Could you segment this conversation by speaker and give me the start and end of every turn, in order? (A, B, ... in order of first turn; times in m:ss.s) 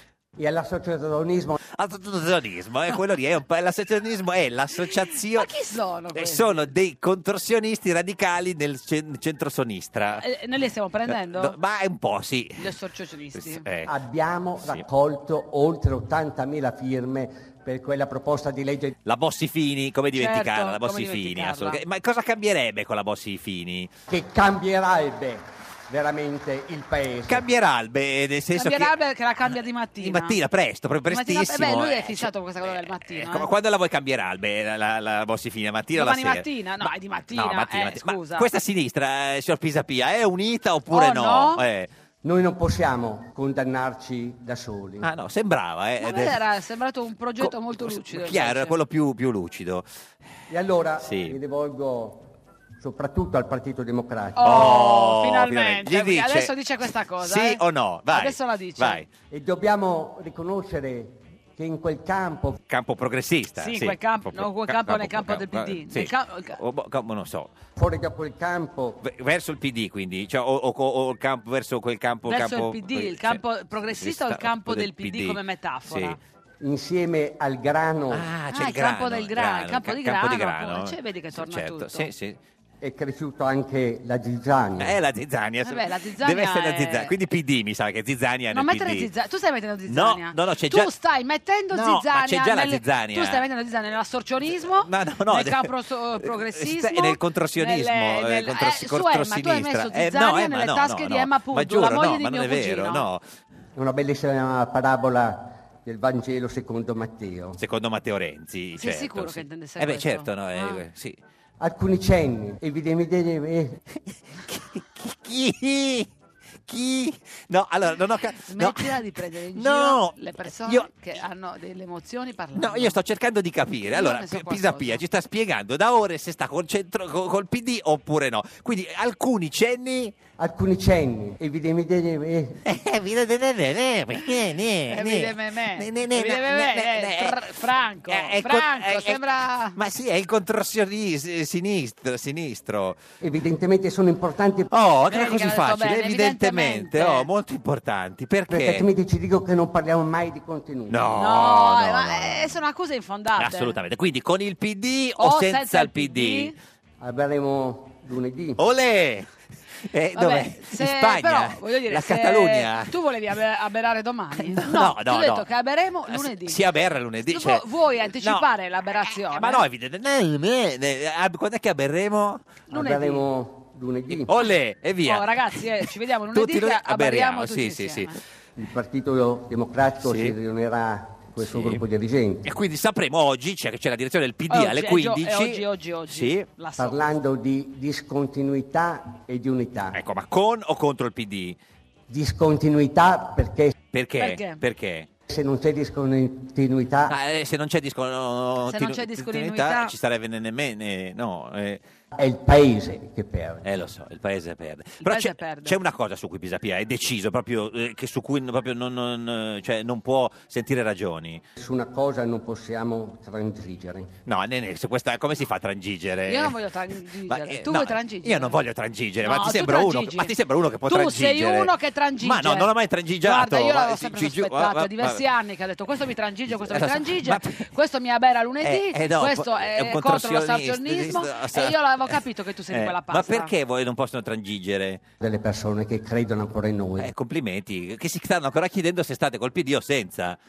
0:00.4-0:01.6 A
0:01.7-0:05.5 B
0:05.3-0:06.7 C
0:06.1-0:10.2 B
0:10.2-0:11.6 C
0:11.1-0:12.7 B
0:12.6-0:13.6 C
0:13.4-0:13.9 B
0:13.9-0:19.0 A
0:19.0-0:23.9 B
0:20.2-0:21.8 C
0:24.1-0:27.4 A
0:27.3-0:28.9 B
0:28.5-0:30.4 C
0:30.0-0:41.9 B
0:31.1-0:33.5 C
0:36.0-0:38.5 C
0:40.9-0:41.6 C
0:42.2-0:45.1 A
0:45.0-0:46.4 B
0:46.0-0:48.8 C
0:47.4-0:49.9 B
0:50.5-0:54.7 A
0:51.0-0:51.4 B
0:54.4-0:59.0 C
0:54.4-0:56.5 B
0:57.2-0:59.1 B
0:59.3-1:02.6 A
1:02.7-1:07.5 B
1:03.6-1:06.6 C
1:07.8-1:09.0 A
1:09.0-1:16.2 B
1:12.3-1:16.2 C
1:16.6-1:18.3 A
1:18.1-1:22.4 B
1:18.5-1:22.1 C
1:22.8-1:25.0 A
1:24.8-1:29.1 B
1:25.6-1:27.1 C
1:28.5-1:43.1 C
1:29.9-1:30.9 B
1:31.7-1:33.4 B
1:34.8-1:43.2 B
1:43.8-1:47.6 A
1:47.6-1:51.2 B
1:48.8-1:50.8 C
1:51.6-1:53.8 A
1:54.5-1:56.1 B
1:56.7-1:59.0 B
1:58.5-2:03.0 C
1:59.5-2:00.9 B
2:02.6-2:10.1 B
2:03.9-2:05.0 C
2:10.4-2:12.6 A
2:12.6-2:23.0 B
2:14.9-2:19.8 C
2:23.2-2:24.7 A
2:24.7-2:28.9 B
2:25.1-2:27.3 C
2:28.5-2:31.2 A
2:30.9-2:32.6 B
2:31.2-2:33.8 C
2:33.4-2:36.5 B
2:35.2-2:36.6 C
2:37.0-2:38.6 A
2:38.6-2:39.3 B
2:39.8-2:42.9 B
2:40.2-2:46.6 C
2:44.4-2:45.5 B
2:46.1-2:47.6 B
2:47.3-2:49.6 C
2:48.2-2:48.5 B
2:49.3-2:52.4 B
2:52.7-2:53.2 C
2:52.7-2:54.3 A
2:54.1-2:58.2 B
2:55.0-2:58.2 C
2:58.6-3:02.4 A
3:00.0-3:00.4 B
3:01.4-3:01.8 B
3:02.4-3:06.5 B
3:04.5-3:07.2 C
3:06.8-3:10.0 A
3:09.9-3:11.6 B
3:12.1-3:13.7 A
3:13.9-3:15.1 B
3:14.2-3:14.6 C
3:15.3-3:17.2 A
3:17.1-3:21.8 B
3:18.7-3:19.9 C
3:22.1-3:23.6 A
3:23.6-3:31.4 B
3:25.0-3:25.8 C
3:31.6-3:34.1 A
3:34.3-3:36.6 B
3:36.3-3:38.6 C
3:37.3-3:45.2 B
3:39.2-3:40.3 C
3:40.9-3:42.7 C
3:43.2-3:53.5 C
3:46.5-3:47.6 B
3:48.6-3:55.0 B
3:55.2-3:57.1 A
3:57.0-4:00.4 B